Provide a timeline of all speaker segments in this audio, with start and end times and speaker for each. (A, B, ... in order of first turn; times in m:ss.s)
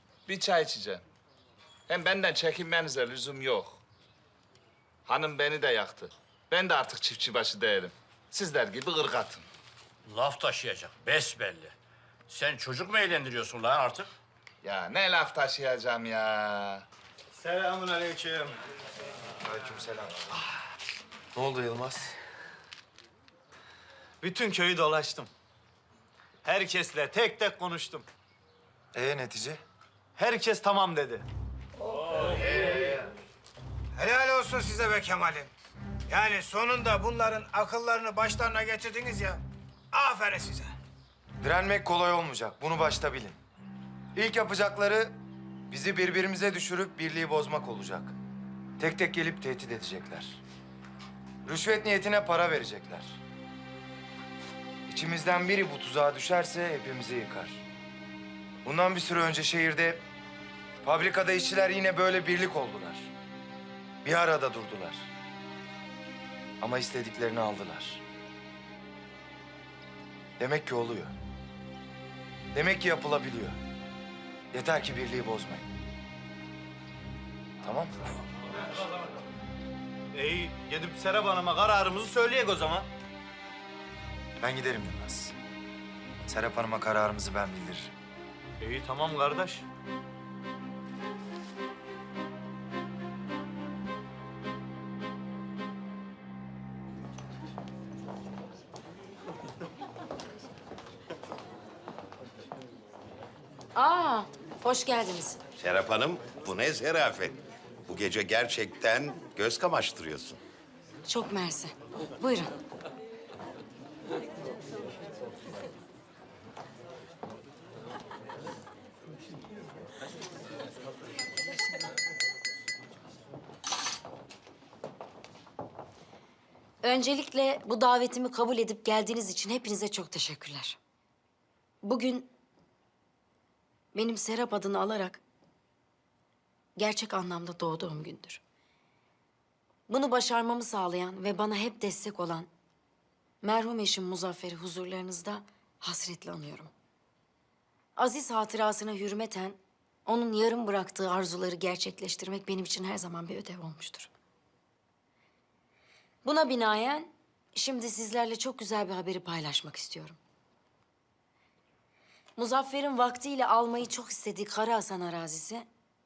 0:00.2-0:01.0 A
0:01.9-0:03.8 A
0:05.0-0:09.4 A
0:10.1-0:11.7 B
0:12.3-0:14.1 B
0:14.6-0:16.8 A
0:17.4-0:18.5 C
0:19.4-0:20.3 D
0:21.3-0:22.1 D
0:24.2-0:25.3 C
0:26.4-0:28.0 C
0:28.9-0:29.6 D
0:30.2-0:31.2 C
0:34.0-0:35.5 E
0:36.1-0:39.4 E
0:39.9-0:40.7 E
0:41.4-0:43.4 D
0:44.1-0:45.2 D
0:45.7-0:48.1 D
0:48.8-0:50.4 D
0:51.4-0:53.2 D
0:54.9-0:57.6 D
0:58.6-1:00.0 D
1:00.8-1:03.1 D
1:04.0-1:05.1 D
1:06.6-1:08.0 D
1:10.4-1:11.1 D
1:12.5-1:13.6 D
1:14.5-1:15.7 D
1:17.6-1:17.9 D
1:20.1-1:22.9 C
1:24.4-1:25.4 D
1:26.2-1:27.9 D
1:28.6-1:29.6 C
1:43.7-1:45.4 F
1:45.6-1:50.4 G
1:51.0-1:52.5 F
2:06.8-2:10.8 F
2:11.8-2:12.3 F
2:13.9-2:15.2 F
2:16.8-2:18.4 F
2:19.9-2:22.5 F
2:23.4-2:26.7 F
2:28.0-2:34.1 F
2:36.2-2:40.2 F
2:42.4-2:45.7 F